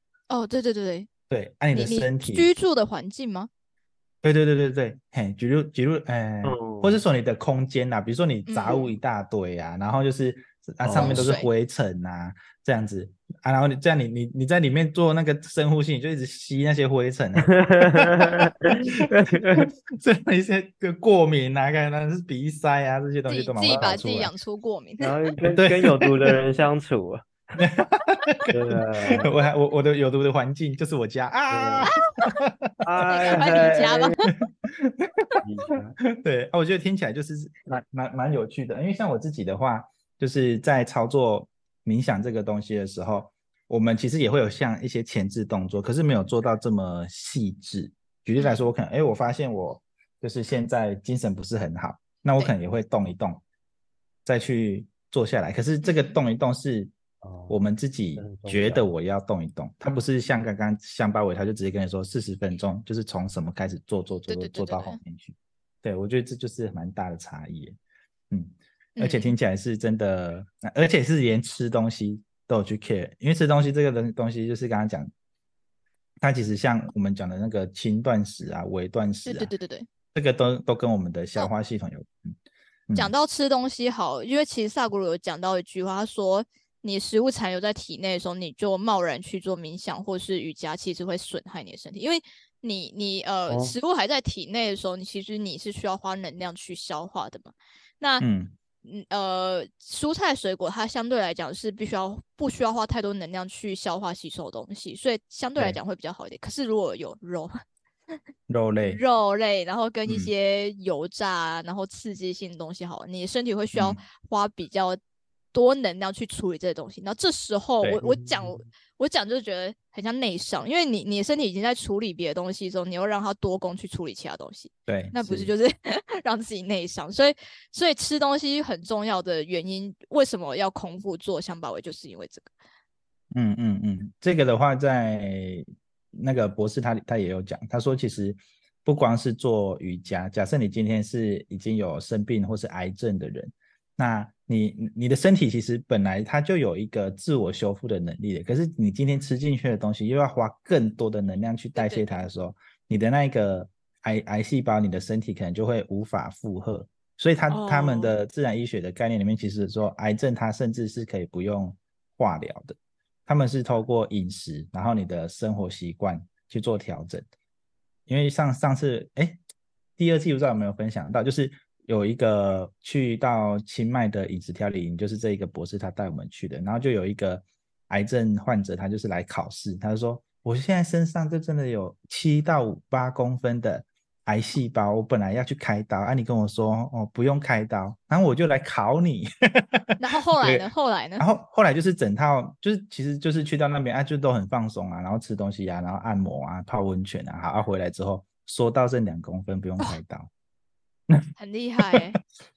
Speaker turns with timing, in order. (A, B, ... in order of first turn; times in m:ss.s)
0:00.3-0:01.1 A
0:01.3-0:02.5 B
0:01.7-0:03.5 A
0:04.2-0:24.3 B
0:06.4-0:07.0 C
0:08.5-0:08.9 A
0:10.8-0:11.3 C
0:10.9-0:11.5 A
0:17.6-0:19.6 C
0:23.3-0:25.2 A
0:23.6-0:24.0 C
0:25.0-0:27.3 C
0:25.5-0:26.3 B
0:27.6-0:28.5 B
0:28.5-0:29.3 C
0:29.2-0:33.6 B
0:31.5-0:31.9 C
0:31.9-0:32.3 A
0:32.8-0:34.2 C
0:33.1-0:34.2 A
0:34.2-0:35.4 B
0:35.4-0:36.0 C
0:36.2-0:53.4 B
0:48.4-0:48.7 A
0:54.2-0:56.9 B
0:55.8-0:56.2 A
0:57.2-0:57.6 C
0:57.5-1:07.8 B
0:58.2-0:58.9 C
1:04.3-1:05.0 A
1:08.3-1:15.1 B
1:09.0-1:09.4 A
1:16.2-1:19.5 B
1:19.3-1:19.9 A
1:20.1-1:22.4 B
1:23.0-1:38.2 A
1:33.5-1:33.8 C
1:38.2-1:38.6 B
1:38.8-1:47.5 A
1:48.5-1:49.0 B
1:48.8-1:55.0 A
1:50.1-1:50.3 B
1:53.7-1:54.0 B
1:55.5-2:12.5 A
1:58.0-1:58.6 C
2:04.9-2:05.5 B
2:13.3-2:47.3 B
2:31.8-2:32.1 A
2:37.5-2:38.1 A
2:48.1-2:49.4 B
2:50.0-3:20.3 B
3:10.0-3:11.3 A
3:21.4-3:22.2 A